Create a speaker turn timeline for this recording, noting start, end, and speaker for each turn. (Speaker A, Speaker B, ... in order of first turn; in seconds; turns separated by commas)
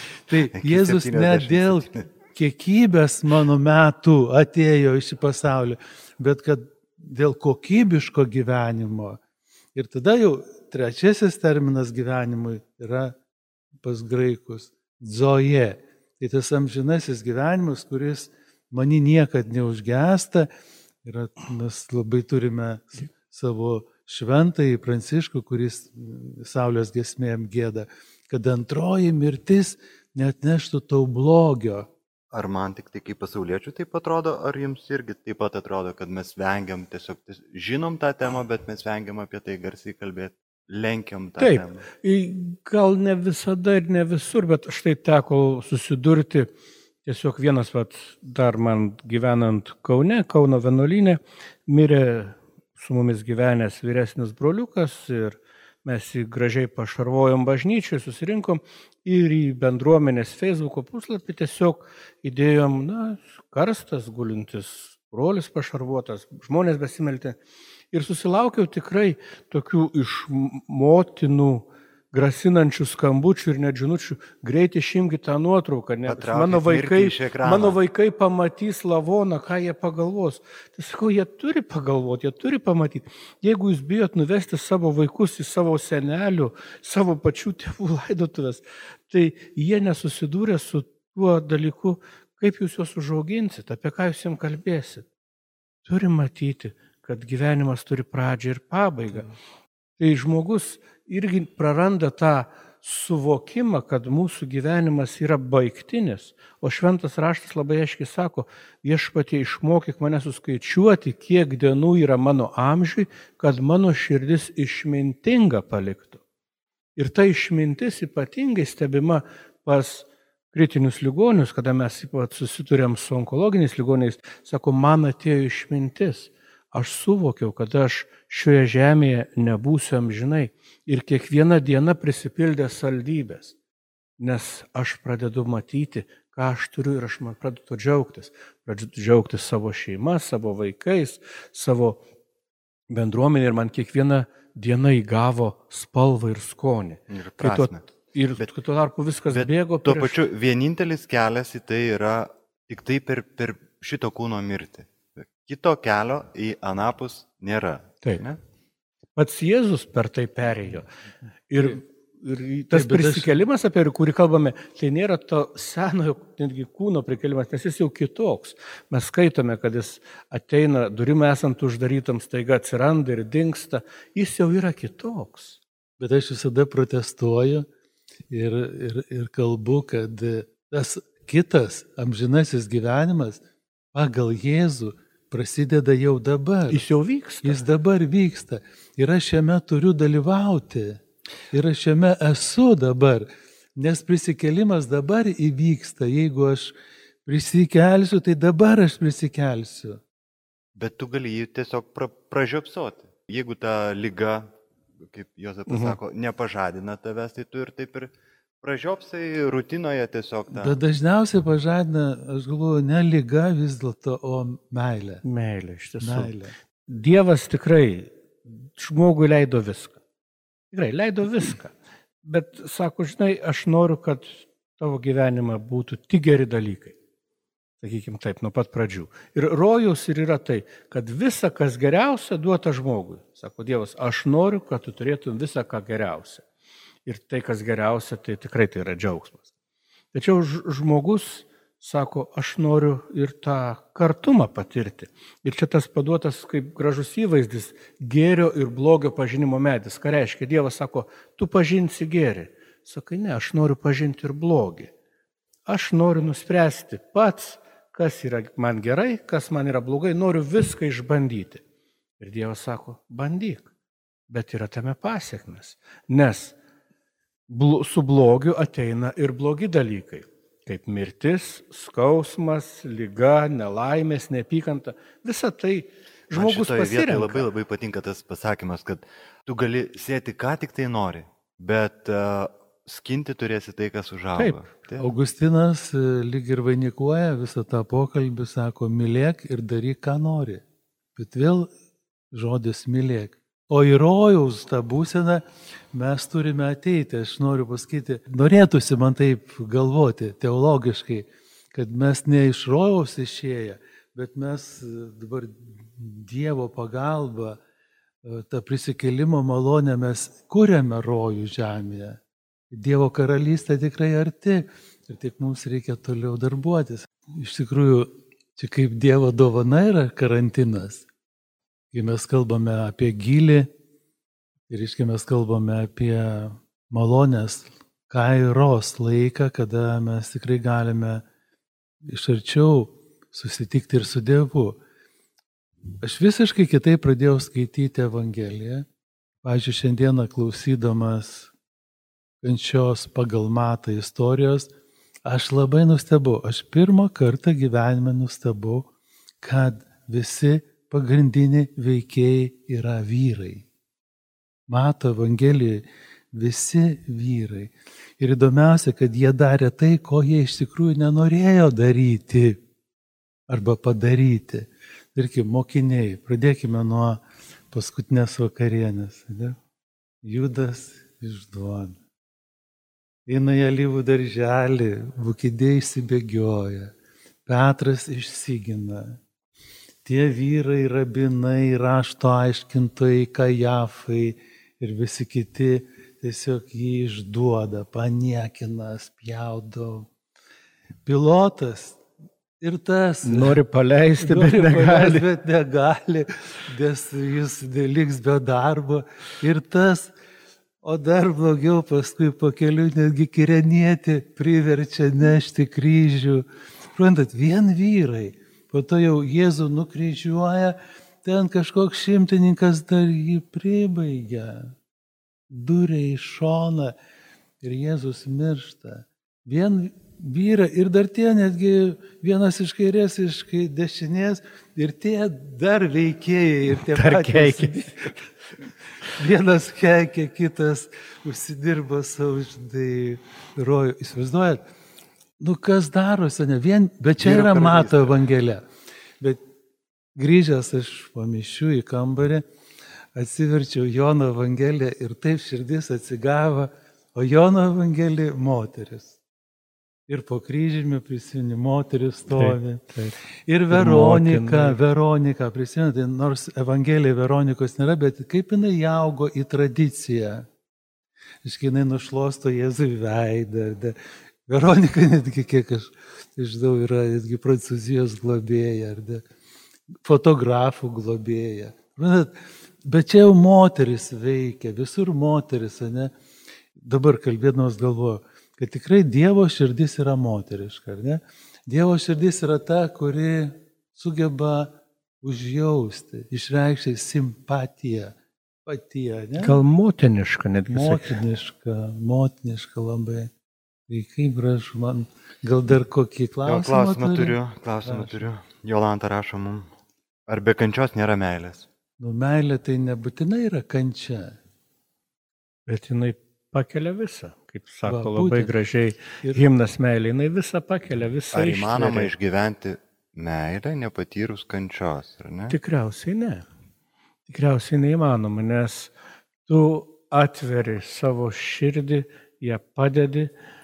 Speaker A: 0.3-9.2, Speaker B: 0.5-2.0, Speaker A: 9.7-13.1, Speaker A: 13.8-20.5, Speaker A: 21.0-31.9, Speaker B: 32.3-41.9, Speaker C: 41.4-46.5, Speaker C: 47.0-67.4, Speaker C: 67.9-95.0, Speaker B: 76.0-77.8, Speaker C: 95.8-99.3, Speaker C: 100.0-116.2, Speaker C: 117.0-133.5, Speaker C: 134.2-142.0, Speaker C: 142.9-150.2, Speaker B: 147.1-147.9, Speaker B: 149.3-158.4, Speaker C: 159.2-160.9, Speaker C: 161.5-175.6, Speaker A: 162.7-163.4, Speaker A: 176.0-177.7, Speaker A: 178.3-183.4, Speaker A: 183.9-186.8, Speaker C: 186.7-187.6, Speaker A: 187.4-191.0, Speaker A: 191.5-196.7, Speaker A: 197.2-200.0, Speaker B: 200.7-204.5, Speaker B: 205.1-210.8, Speaker C: 205.7-205.9, Speaker A: 210.5-215.2, Speaker C: 215.2-216.3, Speaker A: 216.0-216.5, Speaker C: 216.8-220.0, Speaker C: 220.7-226.9, Speaker C: 227.8-236.4, Speaker C: 237.1-239.5, Speaker C: 240.1-254.9, Speaker C: 255.7-261.6, Speaker C: 262.2-263.7, Speaker C: 264.3-266.5, Speaker C: 267.5-277.5, Speaker B: 276.3-285.1, Speaker C: 284.4-284.6, Speaker A: 285.0-290.6, Speaker A: 291.1-291.7, Speaker A: 292.3-307.6, Speaker A: 308.2-312.2, Speaker A: 312.7-321.0, Speaker A: 321.9-323.7, Speaker A: 324.7-331.2, Speaker A: 332.0-334.8, Speaker A: 336.0-338.9, Speaker A: 339.4-341.5, Speaker A: 342.4-344.7, Speaker A: 345.2-348.9, Speaker A: 349.4-353.6, Speaker A: 354.7-362.6, Speaker A: 363.5-369.6, Speaker A: 370.2-372.0, Speaker A: 373.3-376.9, Speaker A: 377.4-379.2, Speaker A: 380.0-390.1, Speaker A: 391.0-392.0, Speaker A: 392.6-393.6, Speaker C: 393.2-395.3, Speaker A: 394.2-400.1, Speaker A: 400.8-414.7, Speaker A: 415.5-416.9, Speaker A: 417.6-428.2, Speaker C: 426.7-428.1, Speaker A: 429.1-434.6, Speaker A: 435.4-438.6, Speaker B: 437.2-438.2, Speaker A: 440.1-442.4, Speaker A: 443.1-449.1, Speaker A: 450.1-452.8, Speaker C: 452.3-453.1, Speaker A: 453.4-460.4, Speaker C: 453.7-454.8, Speaker A: 461.4-463.9, Speaker A: 464.5-469.2, Speaker A: 470.0-476.1, Speaker A: 476.8-489.6, Speaker C: 489.4-491.2, Speaker A: 490.7-493.3, Speaker A: 493.9-498.2, Speaker B: 496.4-499.7, Speaker B: 500.3-501.6, Speaker A: 502.0-504.4, Speaker C: 505.7-512.1, Speaker A: 507.8-508.5, Speaker B: 511.3-515.6, Speaker C: 515.5-516.4, Speaker C: 517.3-518.9, Speaker C: 519.5-523.3